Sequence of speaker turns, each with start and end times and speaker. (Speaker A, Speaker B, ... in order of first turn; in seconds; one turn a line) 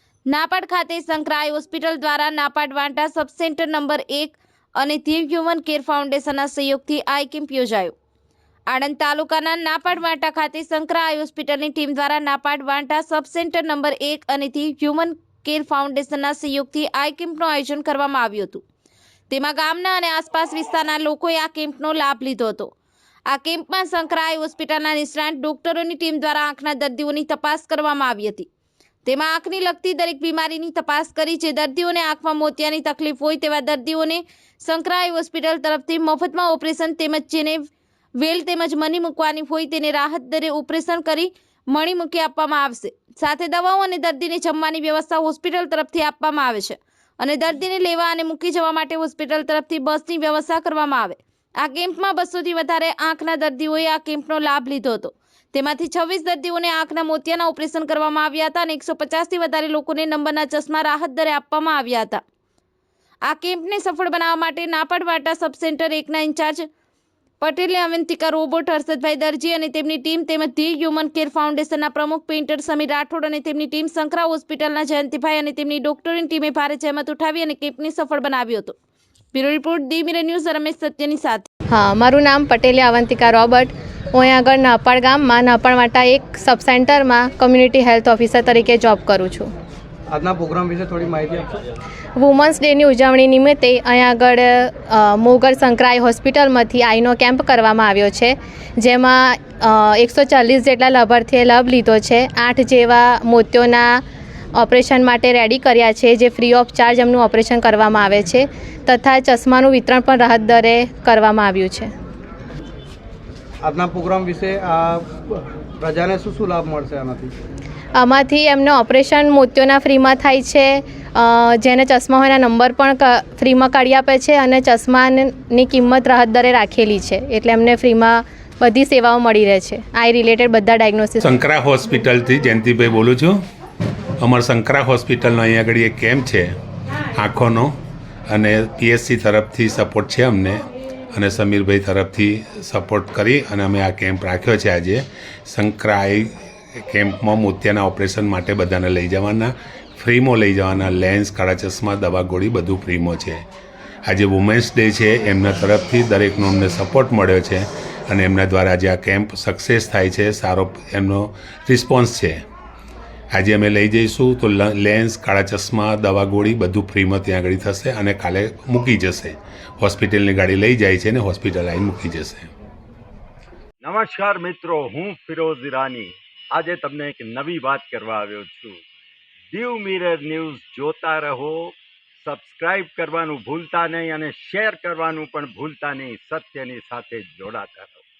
Speaker A: 0.3-7.9
Speaker A: 8.7-18.6
Speaker A: 19.3-22.7
Speaker A: 23.3-28.5
Speaker A: 29.0-37.7
Speaker A: 38.2-62.2
Speaker A: 63.2-66.7
Speaker A: 67.4-78.7
Speaker A: 79.3-81.5
Speaker B: 81.7-89.5
Speaker C: 90.1-91.6
Speaker B: 92.2-104.0
Speaker B: 104.5-111.9
Speaker C: 113.6-117.3
Speaker B: 118.0-131.3
Speaker D: 131.2-133.4
Speaker D: 134.2-136.6
Speaker D: 137.2-137.7
Speaker D: 138.3-153.4
Speaker D: 154.1-162.4
Speaker D: 163.3-172.5
Speaker E: 173.8-178.8
Speaker E: 179.5-188.0